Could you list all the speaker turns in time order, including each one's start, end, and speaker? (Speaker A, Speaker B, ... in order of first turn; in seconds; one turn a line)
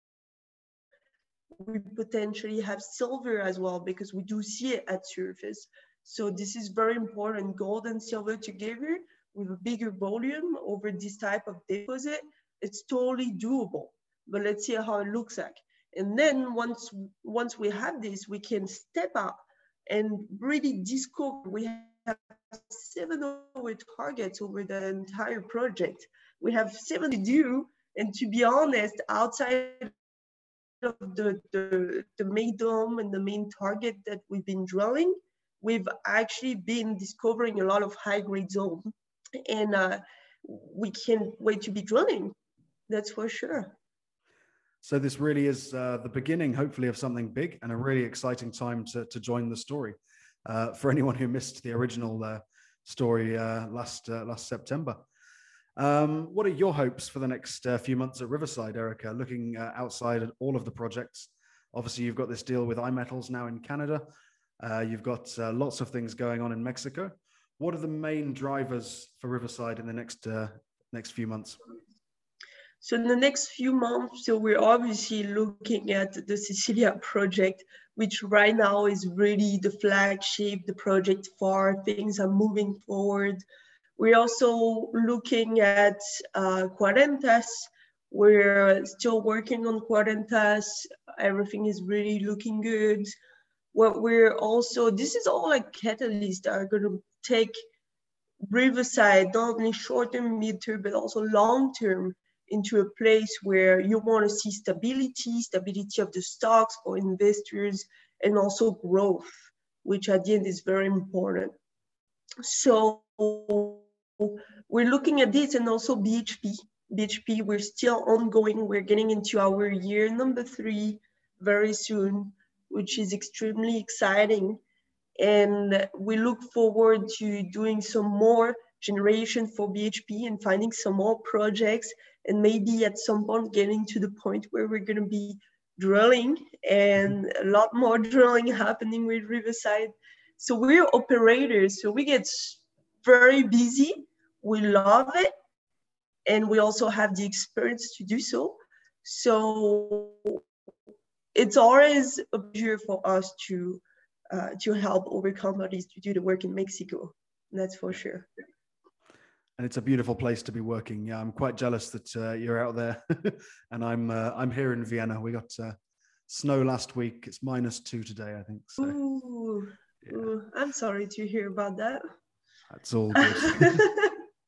Speaker A: 1.6-29.9
Speaker A: 30.8-38.9
Speaker A: 39.5-42.4
Speaker A: 42.9-43.8
Speaker B: 44.8-55.0
Speaker B: 55.8-64.0
Speaker B: 64.6-71.6
Speaker A: 72.8-83.4
Speaker A: 84.0-93.1
Speaker A: 93.7-97.5
Speaker A: 98.4-111.5
Speaker A: 112.4-124.6
Speaker A: 125.2-145.3
Speaker A: 146.2-150.4
Speaker A: 151.3-158.3
Speaker B: 159.6-165.8
Speaker B: 166.3-169.0
Speaker A: 168.8-172.0
Speaker B: 172.7-173.8
Speaker A: 173.5-174.1